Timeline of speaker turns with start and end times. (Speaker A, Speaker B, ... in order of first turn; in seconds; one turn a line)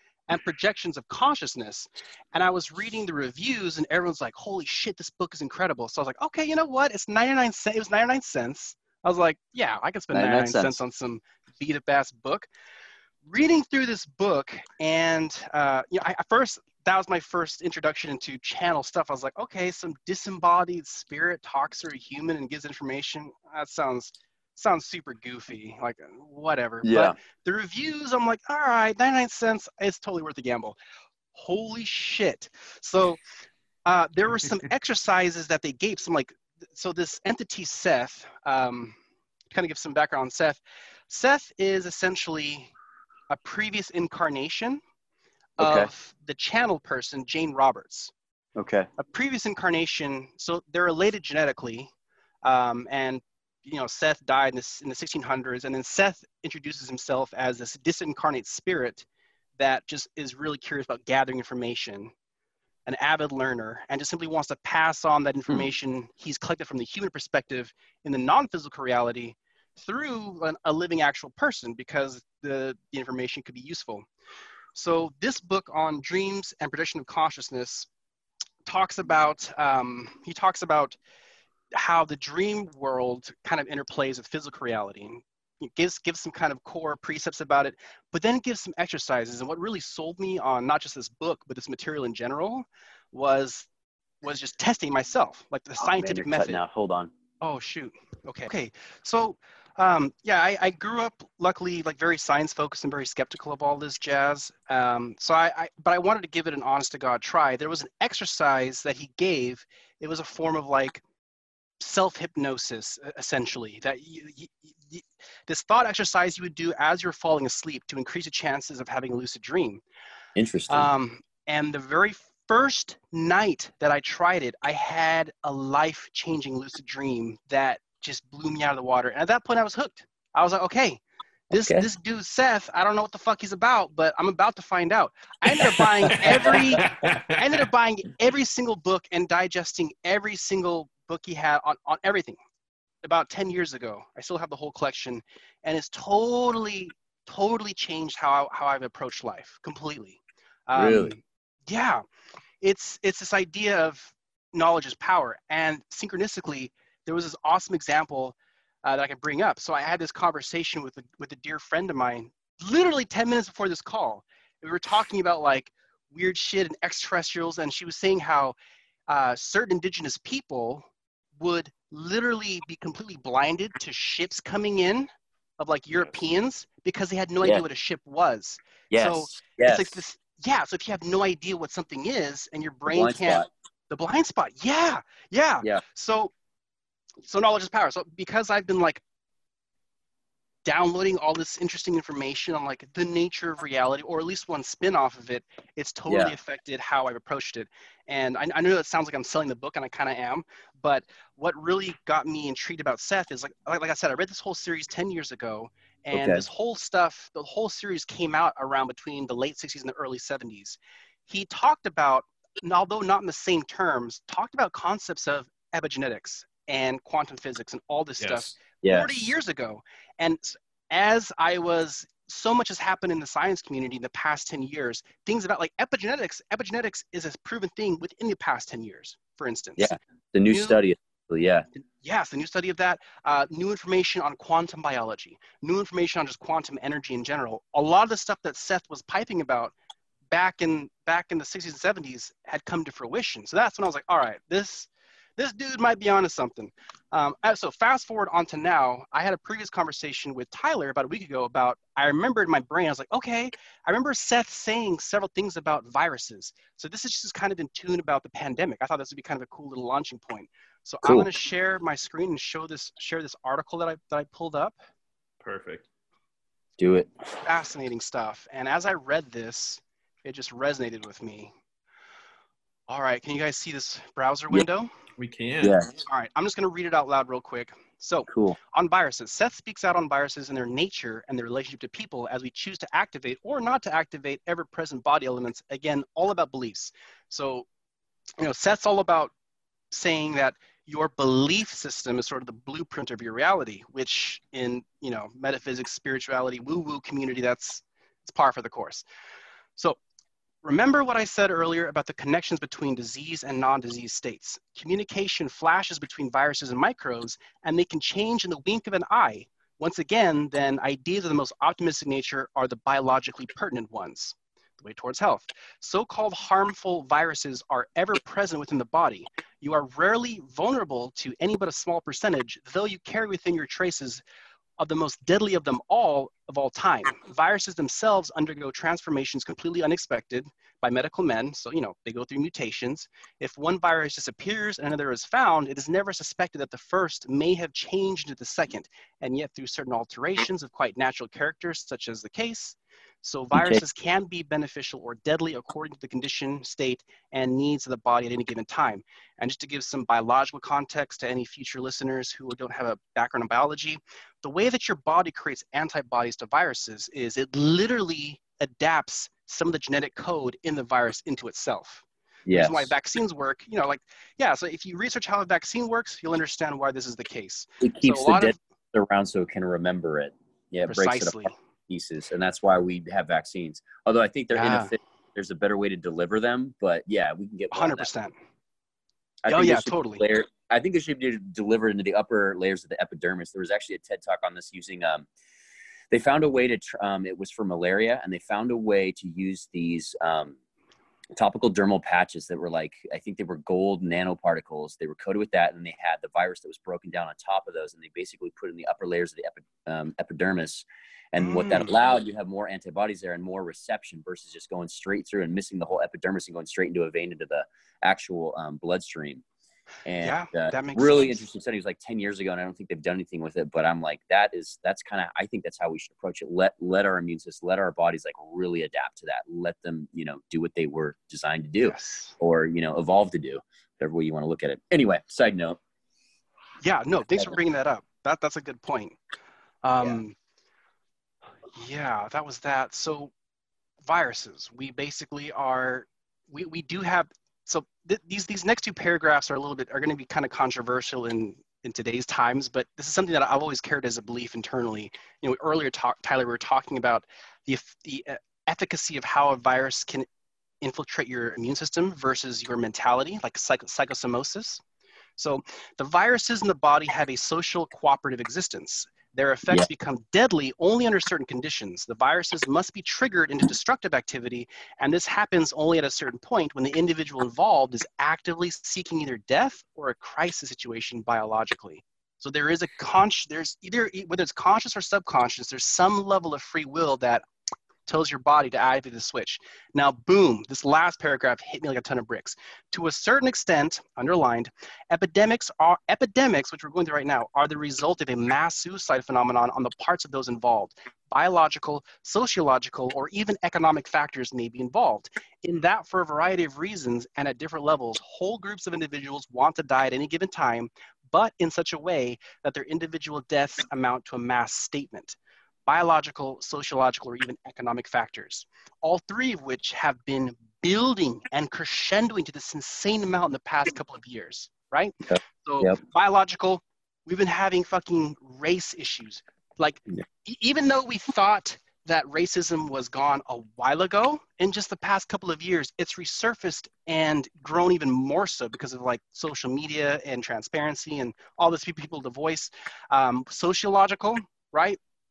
Speaker A: 0.3-12.5
Speaker B: 10.1-10.8
Speaker A: 13.2-30.8
Speaker B: 26.8-27.1
Speaker A: 31.3-33.2
Speaker A: 33.9-39.0
Speaker A: 39.5-42.7
Speaker A: 43.3-44.8
Speaker B: 45.6-45.9
Speaker A: 45.6-48.1
Speaker B: 48.5-48.9
Speaker A: 49.0-51.9
Speaker A: 52.4-59.0
Speaker A: 59.6-62.1
Speaker A: 62.9-74.0
Speaker A: 74.7-77.9
Speaker A: 78.6-81.0
Speaker A: 81.7-93.7
Speaker A: 94.2-96.6
Speaker B: 95.8-97.1
Speaker A: 97.4-111.0
Speaker A: 111.8-119.8
Speaker B: 120.3-120.9
Speaker A: 120.7-131.0
Speaker B: 131.5-131.8
Speaker A: 131.5-142.4
Speaker B: 136.0-136.8
Speaker C: 136.1-137.6
Speaker A: 143.0-152.0
Speaker B: 150.8-151.1
Speaker A: 152.6-168.5
Speaker A: 169.1-170.9
Speaker A: 171.4-175.1
Speaker A: 175.6-186.3
Speaker B: 178.9-180.0
Speaker B: 182.9-183.5
Speaker A: 187.2-189.0
Speaker A: 190.6-230.0
Speaker B: 196.1-196.3
Speaker B: 206.1-206.4
Speaker C: 218.2-218.5
Speaker B: 218.8-219.1
Speaker B: 229.8-231.6
Speaker A: 230.5-230.8
Speaker A: 231.8-239.7
Speaker A: 240.3-264.8
Speaker B: 261.0-261.3
Speaker C: 265.4-265.8
Speaker B: 266.8-267.1
Speaker A: 267.4-271.5
Speaker A: 272.9-274.9
Speaker C: 275.2-275.7
Speaker B: 275.6-275.9
Speaker A: 276.1-287.6
Speaker B: 278.3-278.6
Speaker A: 288.4-289.3
Speaker A: 289.9-299.0
Speaker A: 300.6-324.2
Speaker A: 324.8-368.6
Speaker B: 343.5-343.8
Speaker B: 362.5-362.9
Speaker B: 367.8-378.1
Speaker A: 370.9-371.5
Speaker A: 374.5-374.9
Speaker A: 377.7-378.3
Speaker B: 379.4-385.3
Speaker A: 379.5-380.2
Speaker B: 386.1-390.6
Speaker B: 391.3-409.4
Speaker A: 401.4-401.9
Speaker B: 410.0-425.8
Speaker A: 410.2-411.4
Speaker A: 421.8-422.4
Speaker A: 426.8-429.2
Speaker A: 429.8-430.4
Speaker A: 431.8-433.3
Speaker A: 434.0-450.3
Speaker A: 450.8-454.8
Speaker A: 455.4-477.4
Speaker A: 478.1-535.0
Speaker B: 515.3-516.0